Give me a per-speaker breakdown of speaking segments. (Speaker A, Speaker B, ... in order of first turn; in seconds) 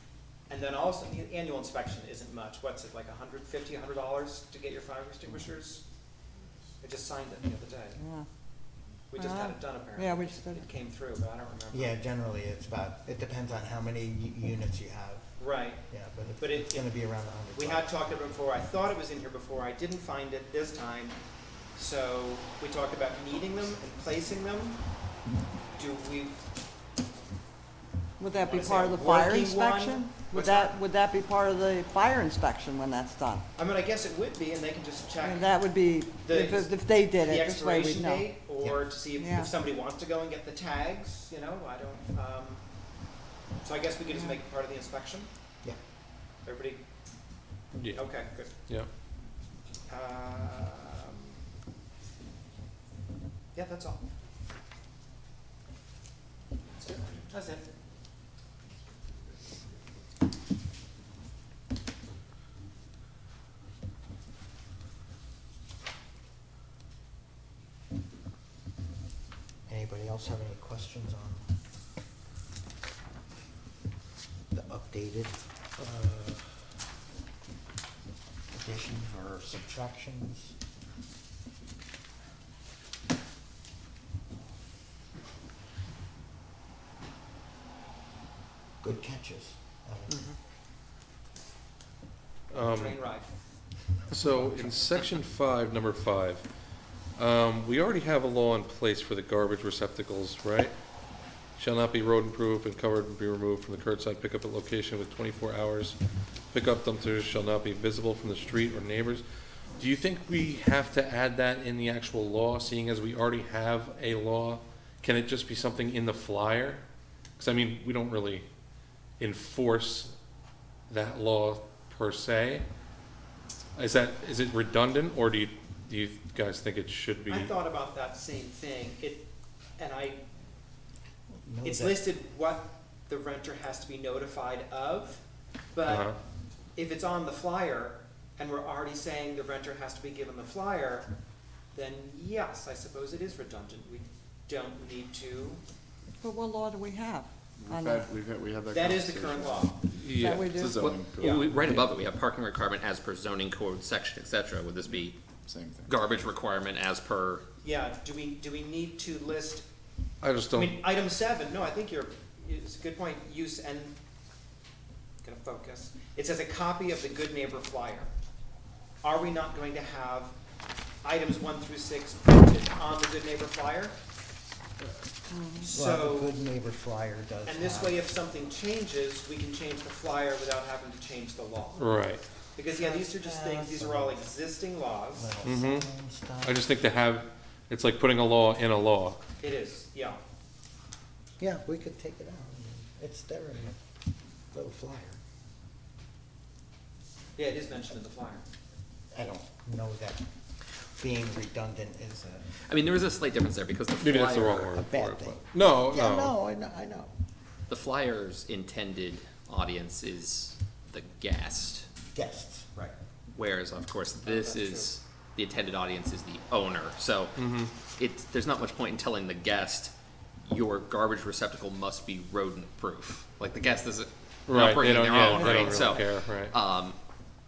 Speaker A: 0.5-5.8, 6.8-8.0, 9.1-12.0, 15.4-15.8, 16.4-16.9, 17.5-21.2, 21.8-24.8, 25.8-26.4, 28.4-30.8, 33.6-35.6, 36.2-42.6, 43.6-45.3, 46.5-46.8, 47.9-48.5, 49.9-51.4, 53.5-54.0, 57.1-57.6, 92.5-93.3, 127.3-130.2, 131.6-135.2, 135.7-136.1, 136.8-141.1, 141.7-145.6, 148.7-149.8, 151.2-151.5, 157.6-159.7, 160.5-163.9, 165.2-168.1, 169.0-170.4, 171.0-174.0, 175.6-176.4, 177.5-181.8, 182.6-185.3, 189.4-190.2, 197.4-198.4, 214.2-215.0, 225.3-226.0
Speaker B: 8.0-8.3, 9.1-10.7, 28.2-33.5, 35.2-38.3, 39.1-39.5, 146.2-148.1, 150.1-150.8, 175.3-175.7, 182.8-183.2
Speaker C: 11.7-15.3, 15.9-17.9, 38.6-38.9, 69.7-71.5, 74.5-76.5, 78.5-80.5, 88.8-90.3, 131.3-132.0, 175.7-178.0, 183.0-184.2, 185.1-186.6, 191.4-193.8, 194.5-195.2, 199.1-200.2, 201.0-202.5, 204.7-207.1, 212.1-212.7
Speaker D: 47.8-48.9, 92.5-93.0, 94.1-96.5, 97.2-100.7, 101.6-106.0, 106.5-109.2, 109.8-116.8, 117.4-118.5, 119.2-120.1, 120.9-122.7, 123.8-127.5, 135.9-136.2, 149.9-150.6, 160.2-160.8, 181.8-182.2, 185.4-185.9, 186.4-189.2, 204.0-206.4, 217.4-217.7, 224.5-226.5
Speaker E: 147.6-151.9, 155.4-156.0
Speaker F: 150.8-155.2, 155.9-157.4, 202.7-204.7, 207.7-211.9, 213.3-219.9, 220.4-227.0